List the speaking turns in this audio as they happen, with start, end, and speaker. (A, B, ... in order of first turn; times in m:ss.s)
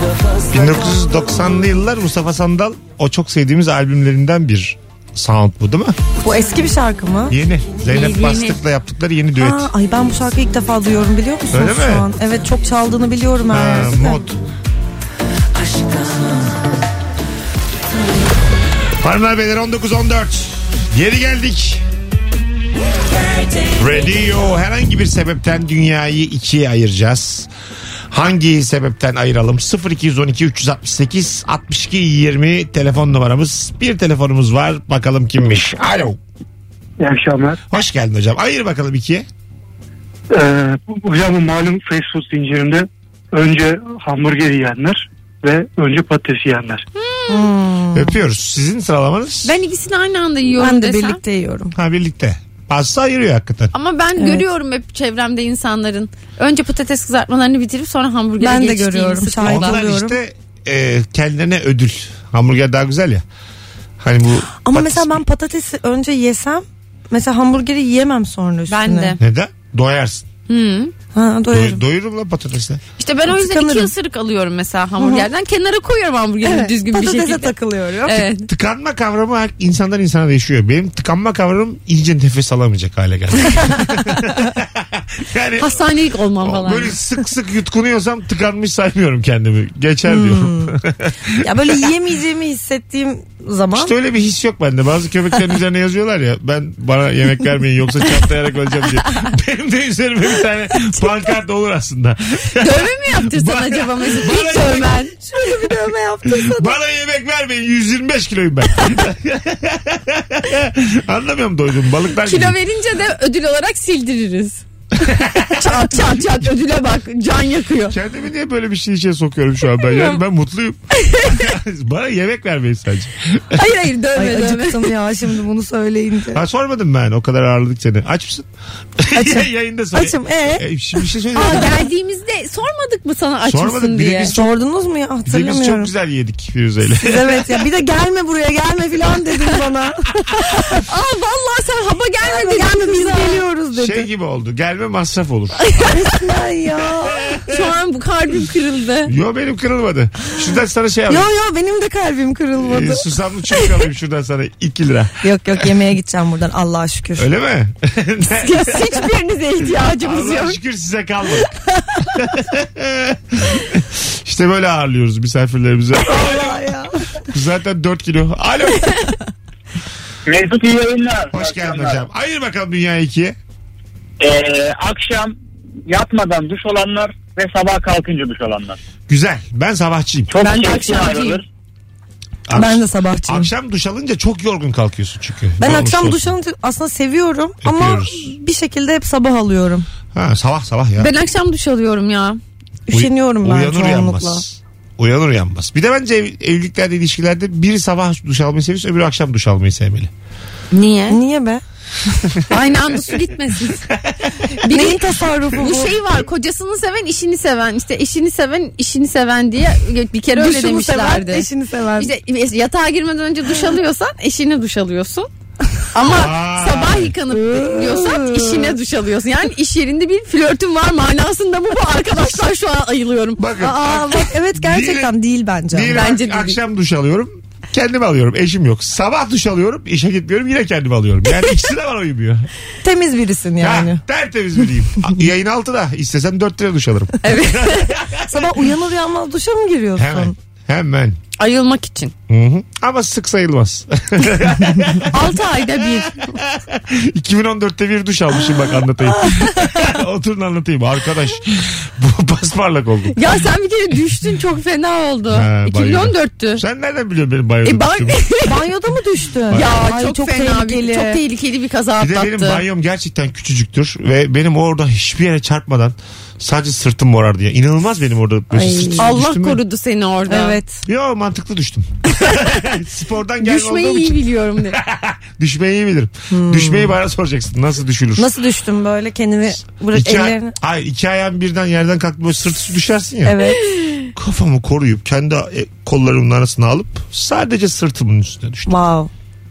0:00.5-0:06.0 A
0:06.2-0:07.4 B
0:07.3-0:09.7 A
0:07.8-0:08.6 C
0:09.4-0:14.2 B
0:11.5-0:12.1 A
0:13.5-0:14.4 A
0:19.0-0:21.8 A
0:23.7-0:27.5 A
0:28.1-0:36.2 A
0:37.0-0:37.6 D
0:37.7-0:39.3 A
0:40.3-0:46.8 D
0:47.0-0:47.5 C
0:47.3-0:48.2 B
0:47.9-0:49.5 A
0:49.4-0:51.2 C
0:50.6-0:51.8 B
0:51.8-0:53.7 A
0:53.7-0:59.8 C
0:54.2-0:54.4 B
0:58.4-1:00.2 B
0:59.4-1:03.2 A
1:04.0-1:05.2 A
1:04.6-1:09.2 B
1:08.7-1:09.2 C
1:09.2-1:10.3 A
1:10.5-1:10.9 C
1:11.1-1:11.8 B
1:11.5-1:12.8 A
1:13.0-1:17.5 C
1:13.3-1:13.9 B
1:15.0-1:15.3 B
1:16.4-1:18.4 B
1:18.1-1:18.5 C
1:18.5-1:25.8 A
1:23.7-1:24.1 B
1:25.6-1:27.0 C
1:26.4-1:31.4 A
1:30.1-1:30.8 B
1:31.3-1:33.9 B
1:33.7-1:45.0 A
1:42.6-1:45.1 C
1:45.2-1:46.8 B
1:45.5-1:52.6 A
1:52.2-1:54.6 C
1:55.0-1:55.6 A
1:55.6-1:58.0 C
1:57.9-2:03.6 A
1:59.8-2:00.2 C
2:01.0-2:01.5 C
2:03.6-2:04.9 C
2:04.2-2:06.4 B
2:06.3-2:11.8 A
2:09.1-2:10.6 B
2:11.3-2:14.4 C
2:13.4-2:14.4 A
2:14.2-2:15.9 B
2:15.2-2:17.6 A
2:17.0-2:20.8 B
2:20.9-2:23.4 C
2:22.2-2:24.1 B
2:23.7-2:25.8 A
2:25.6-2:25.9 C
2:25.8-2:27.4 B
2:27.1-2:27.6 A
2:27.5-2:29.1 C
2:29.1-2:31.3 A
2:31.1-2:33.1 B
2:32.6-2:35.3 A
2:35.2-2:37.3 B
2:37.2-2:39.0 A
2:38.4-2:40.6 C
2:40.0-2:41.5 A
2:41.8-2:42.1 B
2:42.1-2:46.6 A
2:46.0-2:47.0 B
2:47.3-2:49.0 A
2:50.3-2:52.0 E
2:51.3-2:53.4 A
2:54.2-2:55.3 E
2:55.9-2:58.8 E
2:59.1-3:00.3 A
3:00.3-3:01.4 E
3:00.4-3:01.4 C
3:02.5-3:06.3 A
3:02.5-3:03.5 B
3:05.6-3:09.9 B
3:07.6-3:08.3 A
3:10.1-3:11.1 A
3:11.0-3:12.4 C
3:12.9-3:14.4 B
3:12.9-3:20.1 A
3:20.7-3:21.2 C
3:21.1-3:21.6 B
3:22.5-3:23.8 C
3:23.9-3:24.3 A
3:24.6-3:25.0 C
3:24.7-3:26.0 B
3:25.6-3:31.5 C
3:30.3-3:32.1 B
3:32.0-3:35.3 C
3:35.9-3:43.4 C
3:36.0-3:37.1 A
3:37.3-3:38.8 B
3:43.4-3:45.1 A
3:43.6-3:46.0 B
3:45.7-3:52.5 A
3:45.9-3:46.6 C
3:52.8-3:54.0 B
3:53.6-3:58.6 A
3:57.2-3:58.0 C
3:58.3-4:00.3 B
4:00.0-4:01.2 A
4:01.4-4:02.1 C
4:02.3-4:13.3 A
4:05.1-4:06.3 C
4:09.1-4:09.8 B
4:13.2-4:16.6 C
4:15.3-4:18.2 A
4:17.6-4:18.6 C
4:18.4-4:21.2 B
4:19.5-4:22.6 C
4:22.0-4:29.6 A
4:28.5-4:29.1 B
4:29.0-4:30.6 C
4:30.3-4:30.8 B
4:30.8-4:38.3 A
4:32.1-4:32.6 C
4:33.4-4:34.8 C
4:36.3-4:37.0 B
4:38.2-4:40.5 B
4:39.9-4:43.4 A
4:43.2-4:43.6 B
4:43.4-4:44.0 C
4:44.2-4:48.8 A
4:48.7-4:49.1 B